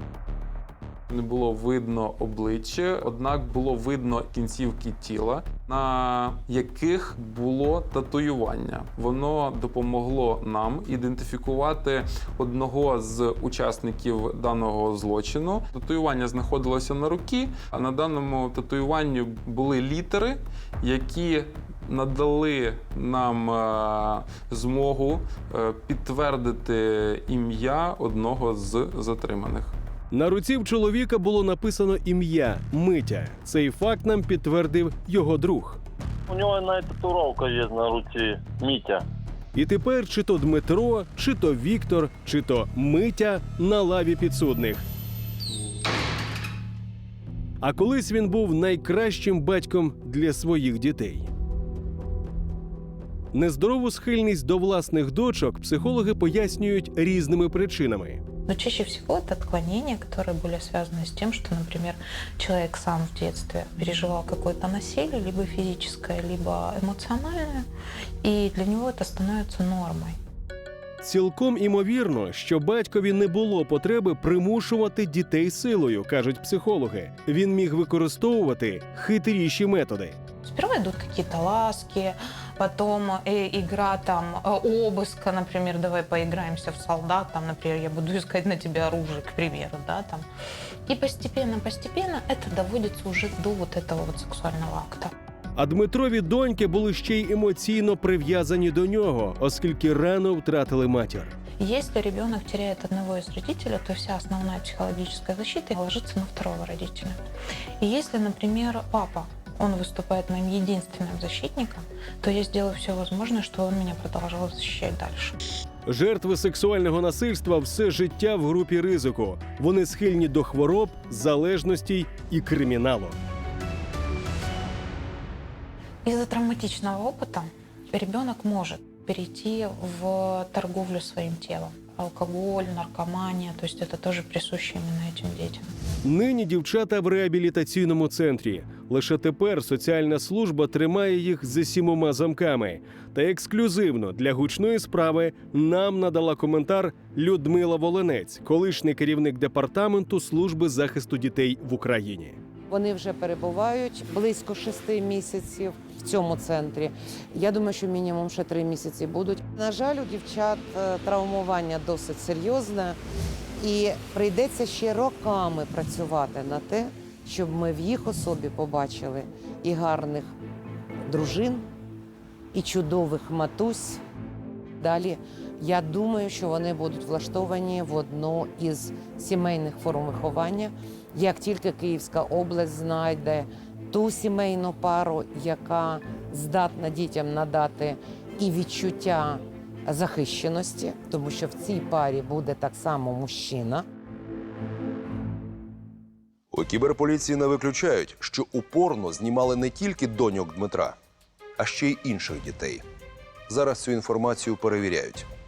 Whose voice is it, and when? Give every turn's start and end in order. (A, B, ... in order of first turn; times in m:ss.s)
0:01.1-0:29.7 A
0:30.1-0:35.8 B
0:36.3-0:39.0 C
0:39.5-0:44.8 B
0:47.6-0:51.3 B
0:53.3-0:58.2 B
0:58.5-1:07.7 D
1:08.2-1:10.2 D
1:11.0-1:20.2 B
1:20.4-1:30.3 D
1:30.9-1:35.1 D
1:35.6-1:41.4 B
1:41.6-1:47.2 D
1:47.8-1:55.4 D
1:55.9-2:03.2 B
2:06.0-2:15.7 D
2:16.0-2:32.4 B
2:32.7-2:43.0 E
2:43.6-2:50.3 E
2:51.1-2:51.6 E
2:52.5-2:54.0 E
2:54.8-3:13.8 E
3:16.5-3:21.0 F
3:21.6-3:22.8 F
3:23.5-3:25.3 F